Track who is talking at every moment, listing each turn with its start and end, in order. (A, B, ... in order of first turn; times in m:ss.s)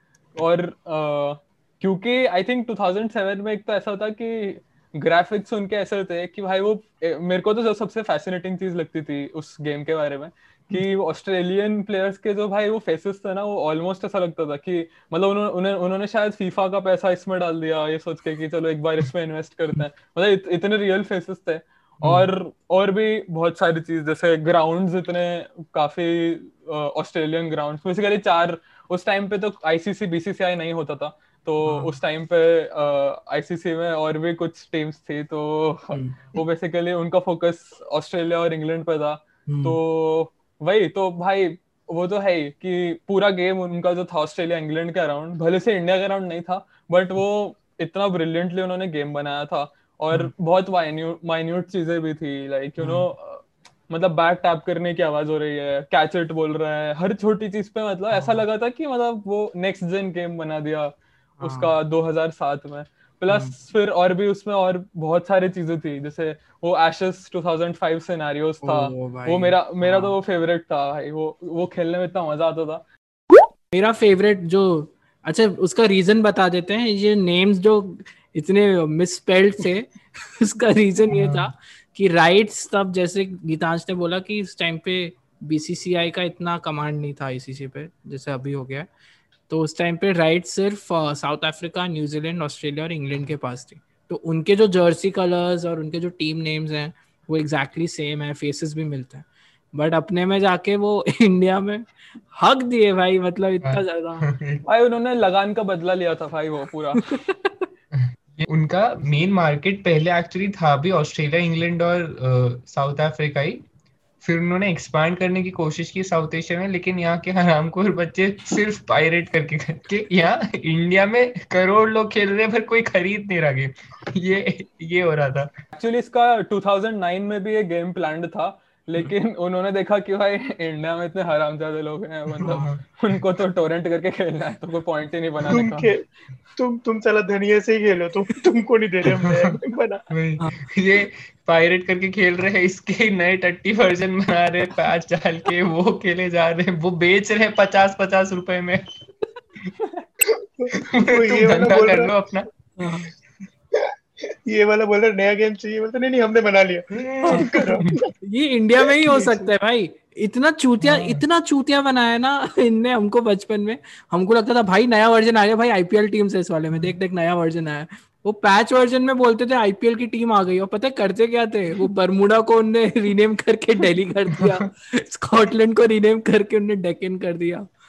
0:00.3-1:12.8 A
0:31.6-0:32.0 B
0:35.9-0:36.2 B
0:39.5-0:39.8 B
1:01.4-1:01.7 B
1:03.3-1:03.5 B
1:08.6-1:10.2 B
1:13.7-1:28.9 B
1:21.1-1:21.5 C
1:29.5-1:44.2 B
1:43.6-1:44.6 C
1:44.6-1:47.0 A
1:48.0-1:53.6 C
1:54.2-2:05.5 C
2:05.7-2:15.9 A
2:12.4-2:12.8 C
2:15.5-2:16.0 D
2:16.6-2:20.0 D
2:20.1-2:28.8 C
2:30.6-2:32.1 D
2:30.9-2:32.5 C
2:32.8-2:33.1 B
2:34.5-2:38.0 D
2:36.9-2:38.0 C
2:38.3-2:57.7 B
2:38.8-2:39.5 D
2:40.8-2:41.2 C
2:54.4-2:54.6 C